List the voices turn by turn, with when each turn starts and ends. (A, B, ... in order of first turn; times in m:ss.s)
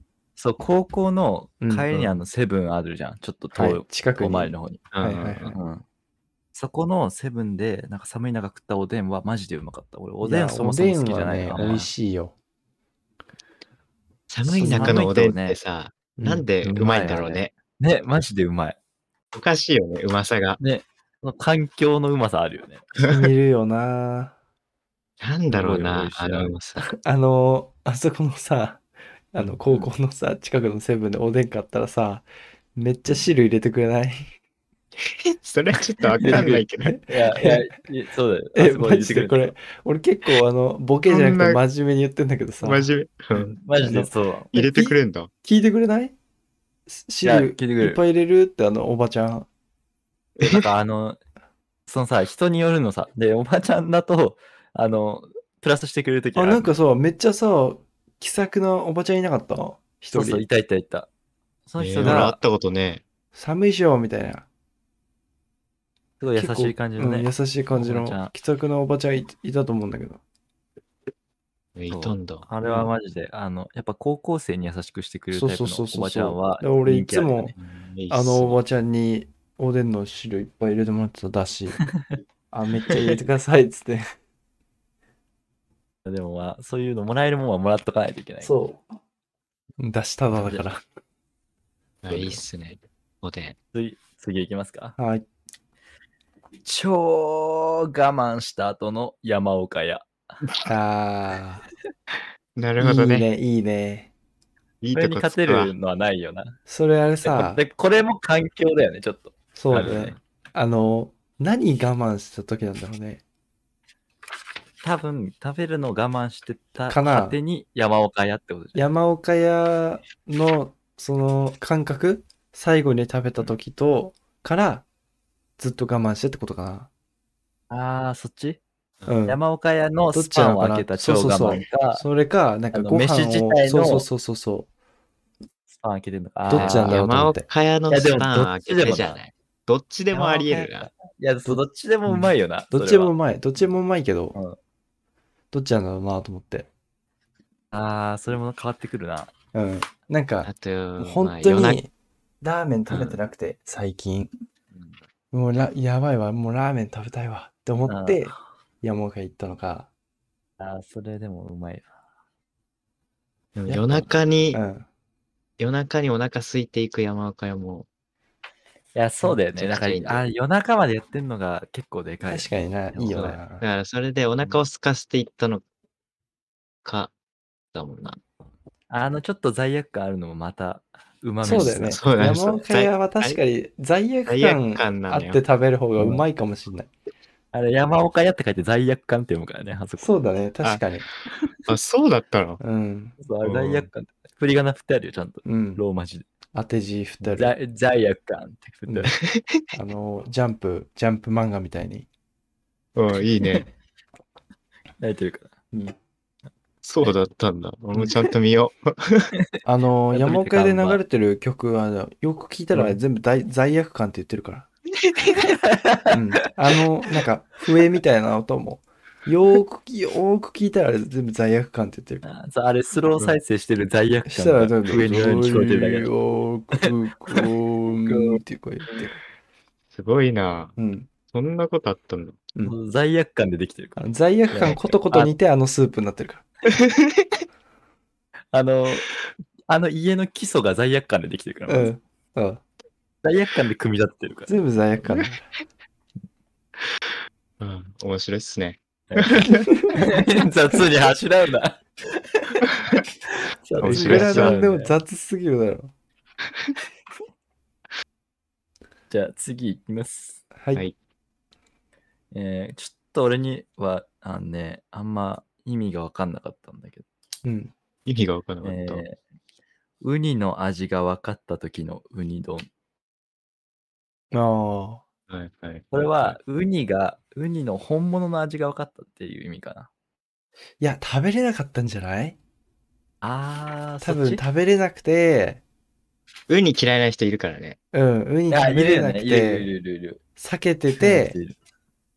0:00.4-0:04.9 A
0:01.6-0:02.2 B
0:03.5-0:05.5 B
0:04.9-0:05.6 C
0:05.5-0:05.8 A
0:06.5-0:11.9 A
0:10.2-0:12.3 B
0:14.3-0:17.5 C
0:14.4-0:15.1 B
0:14.5-0:15.6 A
0:16.2-0:16.4 B
0:16.6-0:18.8 A
0:19.3-0:20.6 C
0:20.6-0:22.8 A
0:23.0-0:24.3 B
0:25.2-0:26.8 C
0:25.5-0:26.5 A
0:27.0-0:34.2 B
0:35.0-0:37.0 C
0:36.2-0:39.5 A
0:36.2-0:37.6 B
0:38.5-0:42.9 B
0:41.1-0:41.6 C
0:42.6-0:43.5 C
0:43.6-0:44.5 A
0:43.8-0:44.9 B
0:44.5-0:45.3 C
0:45.4-0:46.1 B
0:46.9-0:49.5 B
0:47.2-0:48.0 A
0:50.4-0:50.7 C
0:50.4-0:51.2 A
0:51.9-0:56.7 A
0:56.3-1:00.4 B
1:00.1-1:01.1 A
1:01.7-1:02.4 A
1:01.8-1:03.0 C
1:02.0-1:02.3 B
1:03.3-1:04.4 B
1:06.2-1:08.3 A
1:06.4-1:10.2 B
1:11.7-1:12.8 C
1:11.9-1:17.6 A
1:15.3-1:17.5 B
1:17.6-1:18.6 C
1:18.1-1:21.8 B
1:22.5-1:24.1 B
1:26.0-1:28.5 A
1:28.4-1:28.8 B
1:29.8-1:30.8 B
1:30.4-1:30.6 A
1:32.0-1:33.6 C
1:33.7-1:35.0 A
1:35.0-1:35.2 B
1:36.6-1:40.1 A
1:40.6-1:41.6 B
1:42.6-1:43.2 C
1:42.8-1:44.1 B
1:44.8-1:45.7 C
1:44.9-1:46.6 A
1:46.7-1:47.6 B
1:47.2-1:50.2 A
1:49.6-1:53.2 B
1:54.8-1:58.8 A
1:56.9-1:57.4 B
1:58.7-2:04.8 B
2:05.6-2:06.9 B
2:07.7-2:08.6 A
2:09.1-2:09.4 B
2:09.3-2:12.0 A
2:10.1-2:14.7 B
2:12.7-2:14.0 A
2:15.7-2:16.9 A
2:16.5-2:17.4 B
2:16.5-2:20.9 C
2:17.9-2:19.2 A
2:20.1-2:23.1 A
2:22.7-2:24.4 B
2:25.5-2:26.7 B
2:27.7-2:29.3 A
2:29.5-2:31.9 B
2:30.4-2:31.8 C
2:32.4-2:34.3 B
2:32.9-2:33.2 C
2:35.3-2:39.9 B
2:37.9-2:38.4 A
2:40.6-2:41.9 A
2:43.6-2:44.6 C
2:43.7-2:44.0 B
2:44.5-2:44.8 B
2:45.6-2:47.9 C
2:48.9-2:53.3 A
2:49.2-2:50.2 C
2:52.3-2:53.6 B
2:53.1-2:55.6 C
2:56.8-2:57.1 C
2:57.7-2:58.2 C
2:58.9-3:02.0 A
3:01.4-3:06.9 B
3:01.5-3:03.4 C
3:04.3-3:05.4 C
3:07.5-3:10.1 A
3:10.0-3:11.0 B
3:11.7-3:12.6 C
3:12.6-3:13.2 B
3:13.2-3:16.2 A
3:13.4-3:13.9 C
3:15.4-3:15.8 B
3:16.5-3:17.5 B
3:17.2-3:19.2 A
3:19.2-3:19.7 C
3:19.7-3:22.1 B
3:23.0-3:23.7 C
3:23.4-3:23.6 A
3:25.0-3:25.5 A
3:26.8-3:29.3 C
3:29.6-3:34.7 B
3:30.1-3:31.0 A
3:35.4-3:36.2 A
3:36.1-3:42.2 B
3:42.2-3:46.1 A
3:44.3-3:49.2 B
3:46.8-3:47.5 A
3:48.0-3:49.1 A
3:49.9-3:50.7 C
3:50.8-3:51.1 B
3:51.3-3:52.4 C
3:52.6-3:55.3 A
3:54.0-3:56.4 B
3:56.8-3:57.2 C
3:58.5-3:59.1 A
3:59.7-4:01.9 A
4:01.7-4:02.6 B
4:03.2-4:04.5 A
4:04.5-4:05.5 B
4:07.6-4:09.7 C
4:09.1-4:12.7 A
4:09.4-4:10.2 B
4:13.3-4:14.9 A
4:13.8-4:14.6 C
4:13.8-4:15.9 B
4:19.1-4:20.4 A
4:22.3-4:27.0 A
4:27.4-4:27.7 B
4:28.0-4:29.0 C
4:28.6-4:29.2 A
4:30.0-4:32.7 A
4:34.3-4:35.0 B
4:35.3-4:36.4 C
4:35.9-4:39.9 A
4:40.8-4:42.4 B
4:43.2-4:44.4 A
4:44.0-4:45.6 B
4:46.5-4:47.8 C
4:47.9-4:49.7 B
4:48.5-4:50.2 A
4:50.4-4:51.4 B
4:51.0-4:51.5 A